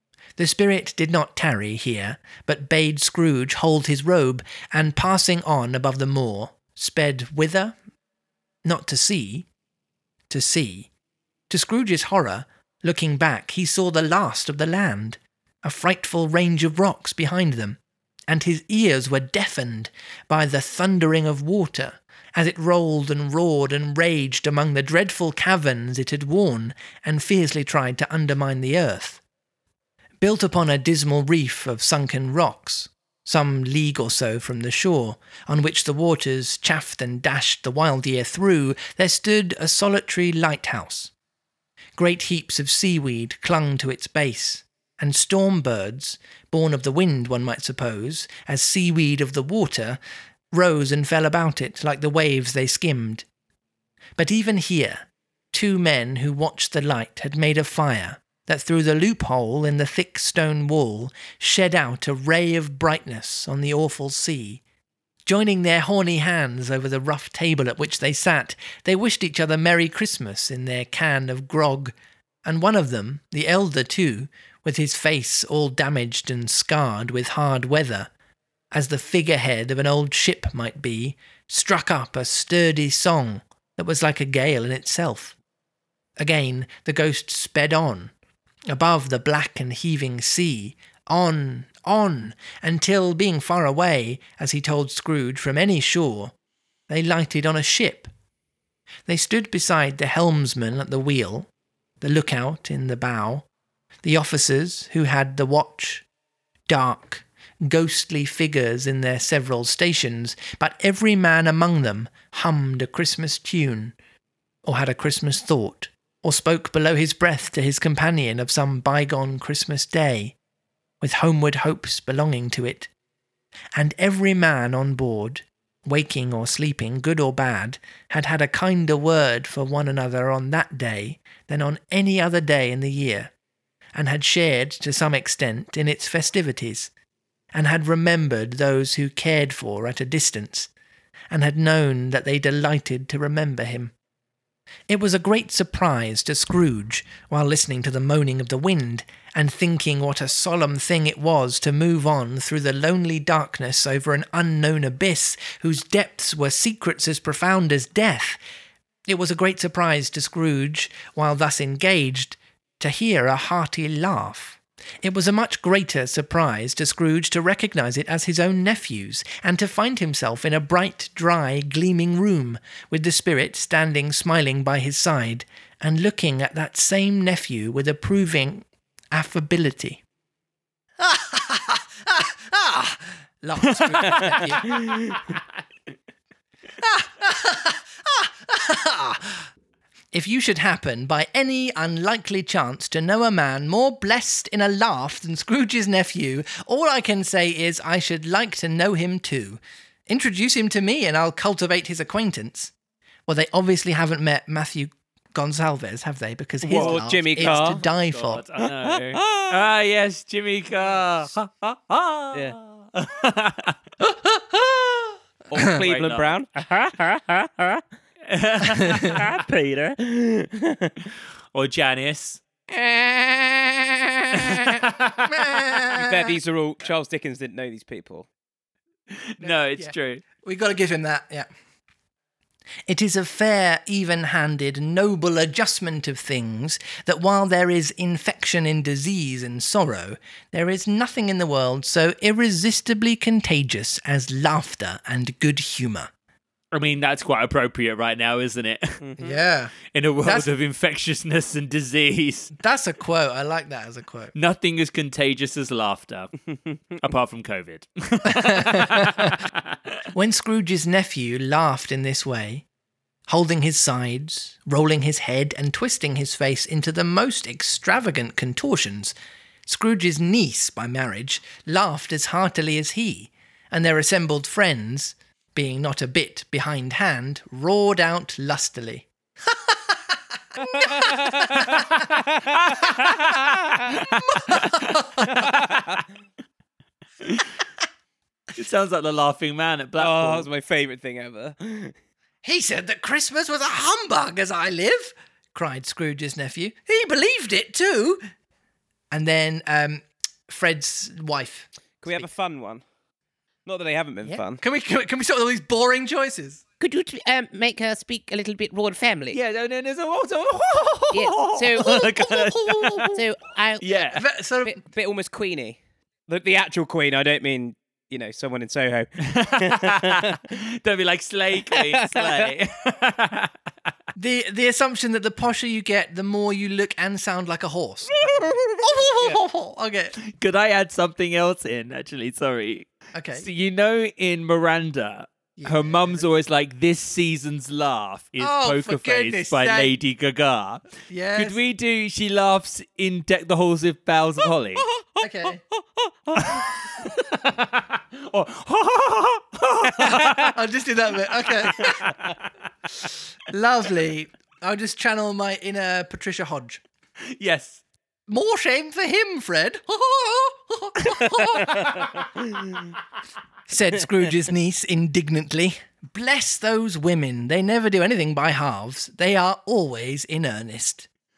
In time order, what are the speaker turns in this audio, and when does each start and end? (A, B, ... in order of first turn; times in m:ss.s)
0:00.4-0:07.8 A
0:08.6-0:09.5 A
0:10.3-0:10.9 A
0:11.5-0:29.2 A
0:30.2-0:41.1 A
0:42.0-0:50.0 A
0:50.5-0:53.3 A
0:54.2-1:04.6 A
1:05.2-1:11.9 A
1:12.4-1:18.1 A
1:18.7-1:25.4 A
1:26.2-1:28.1 A
1:28.7-1:36.3 A
1:36.9-1:38.1 A
1:39.1-1:41.5 A
1:42.0-1:43.5 A
1:44.0-1:46.1 A
1:46.7-1:54.0 A
1:54.6-2:00.4 A
2:01.0-2:02.9 A
2:03.8-2:13.3 A
2:14.0-2:16.9 A
2:17.5-2:20.7 A
2:21.3-2:23.9 A
2:24.9-2:38.4 A
2:39.1-3:00.0 A
3:01.0-3:04.8 A
3:03.6-3:04.8 B
3:04.2-3:05.2 C
3:06.8-3:09.5 A
3:10.1-3:22.7 A
3:23.3-3:28.4 A
3:26.6-3:27.8 C
3:26.6-3:33.8 B
3:28.8-3:29.5 C
3:34.0-3:34.6 A
3:35.5-3:36.5 C
3:35.6-3:40.0 B
3:40.0-3:41.0 C
3:41.5-3:42.4 B
3:42.7-3:44.7 C
3:44.3-3:45.3 B
3:45.2-3:46.4 A
3:45.9-3:48.3 C
3:49.1-3:50.2 B
3:49.4-3:51.5 A
3:52.9-4:06.1 A
4:06.7-4:09.0 B
4:09.0-4:09.4 C
4:09.2-4:10.5 A
4:09.9-4:12.5 B
4:12.6-4:14.3 A
4:14.3-4:16.3 B
4:17.0-4:19.8 B
4:18.3-4:19.4 A
4:20.1-4:22.6 A
4:23.3-4:29.2 A
4:29.7-4:40.1 A
4:40.6-4:44.2 C
4:40.8-4:41.8 A
4:42.1-4:45.8 B
4:44.3-4:45.4 A
4:45.3-4:46.0 C
4:47.2-4:47.5 B
4:48.6-4:50.5 B
4:50.0-4:52.0 C
4:52.4-4:58.2 A
4:59.1-5:02.2 A
5:02.0-5:02.8 C
5:03.7-5:04.6 C
5:04.6-5:06.6 A
5:06.8-5:09.4 D
5:09.3-5:13.2 B
5:11.1-5:12.1 D
5:12.2-5:13.1 A
5:13.1-5:13.8 D
5:13.8-5:14.2 B
5:14.2-5:14.8 A
5:14.8-5:15.8 C
5:16.3-5:20.2 C
5:19.2-5:23.5 B
5:21.7-5:22.5 C
5:24.2-5:30.2 A
5:28.2-5:28.6 B
5:30.2-5:44.9 B
5:33.1-5:33.5 A
5:35.6-5:36.2 A
5:38.4-5:39.9 A
5:41.1-5:41.6 A
5:44.9-5:46.6 C
5:45.2-5:45.6 A
5:46.4-5:50.6 B
5:50.5-5:52.1 A
5:51.6-5:52.5 B
5:53.5-5:56.8 A
5:57.3-5:57.8 B
5:58.3-6:01.9 A
6:01.2-6:02.3 B
6:02.5-6:02.8 C
6:03.7-6:11.1 A